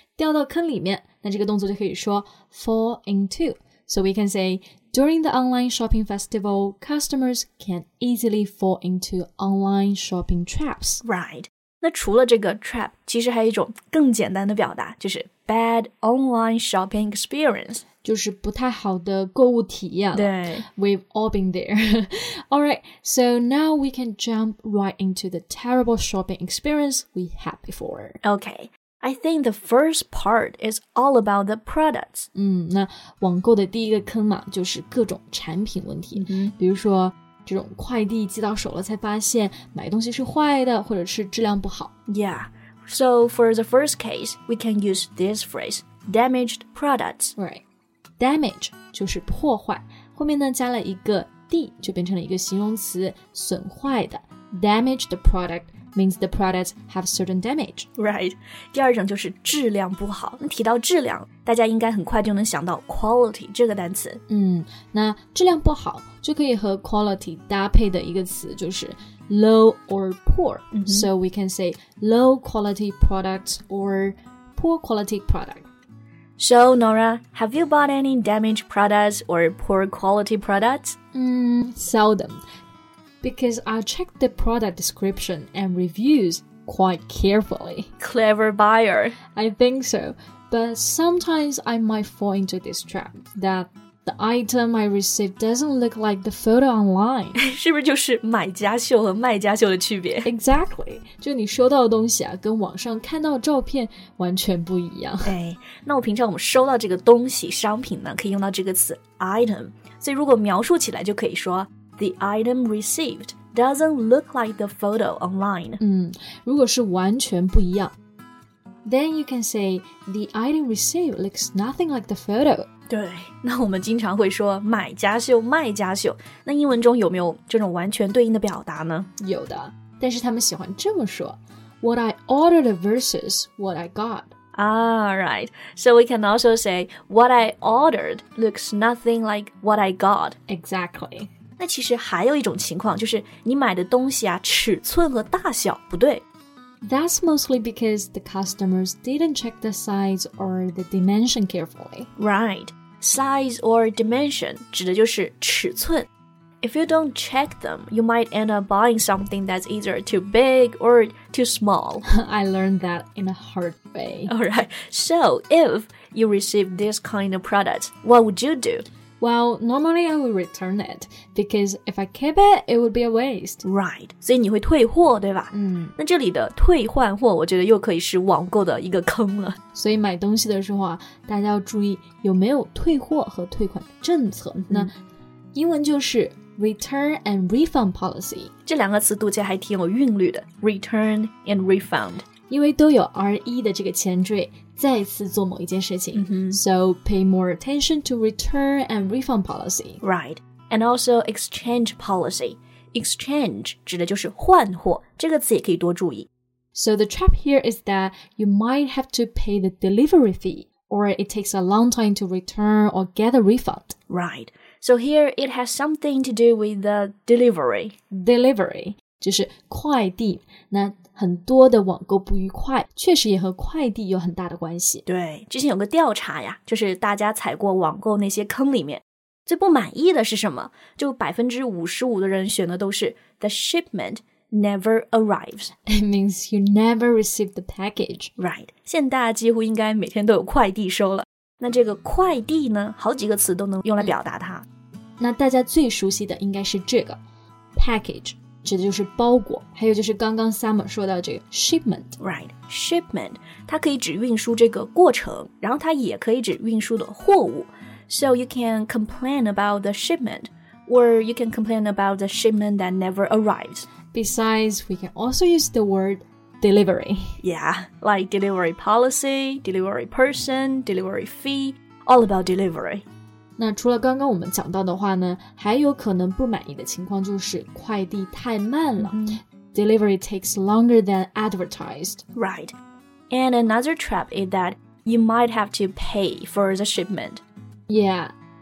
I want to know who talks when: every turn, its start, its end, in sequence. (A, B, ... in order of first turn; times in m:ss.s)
0:00.2-0:11.0 A
0:11.0-0:17.8 B
0:18.0-0:28.2 A
0:20.1-0:20.6 B
0:28.2-0:32.3 B
0:32.4-0:41.9 A
0:36.2-0:36.5 B
0:42.1-0:47.4 B
0:47.4-0:47.6 A
0:48.2-0:57.9 A
0:58.0-1:04.2 B
1:04.3-1:15.7 A
1:10.7-1:11.1 B
1:16.4-1:21.0 B
1:21.1-1:22.4 A
1:23.2-1:27.9 A
1:28.0-1:29.2 B
1:29.4-1:37.4 A
1:37.4-1:40.3 B
1:40.2-1:45.4 A
1:45.2-1:55.8 B
1:55.8-1:58.0 A
1:58.8-2:02.7 A
2:02.9-2:09.1 B
2:09.2-2:14.3 A
2:14.5-2:20.4 B
2:20.5-2:21.3 A
2:21.6-2:26.2 B
2:26.8-2:32.1 A
2:32.2-2:36.1 B
2:36.6-2:42.0 B
2:42.1-2:44.3 A
2:44.3-2:48.9 B
2:49.2-2:53.6 A
2:53.6-2:59.6 B
2:55.5-2:55.9 A
2:59.7-3:04.9 A
3:04.6-3:04.9 B
3:05.5-3:08.5 A
3:08.7-3:12.3 B
3:12.5-3:20.0 A
3:16.2-3:16.6 B
3:20.0-3:26.3 B
3:26.7-3:34.0 A
3:34.1-3:38.0 B
3:38.1-3:45.0 A
3:45.1-3:55.7 B
3:55.9-3:58.3 A
3:58.4-4:04.6 B
4:05.2-4:07.2 A
4:07.8-4:12.2 A
4:12.2-4:23.9 B
4:24.1-4:27.4 A
4:27.4-4:33.0 B
4:33.6-4:42.2 A
4:39.0-4:39.4 B
4:42.4-4:42.8 B
4:43.3-4:47.4 B
4:47.9-4:48.3 A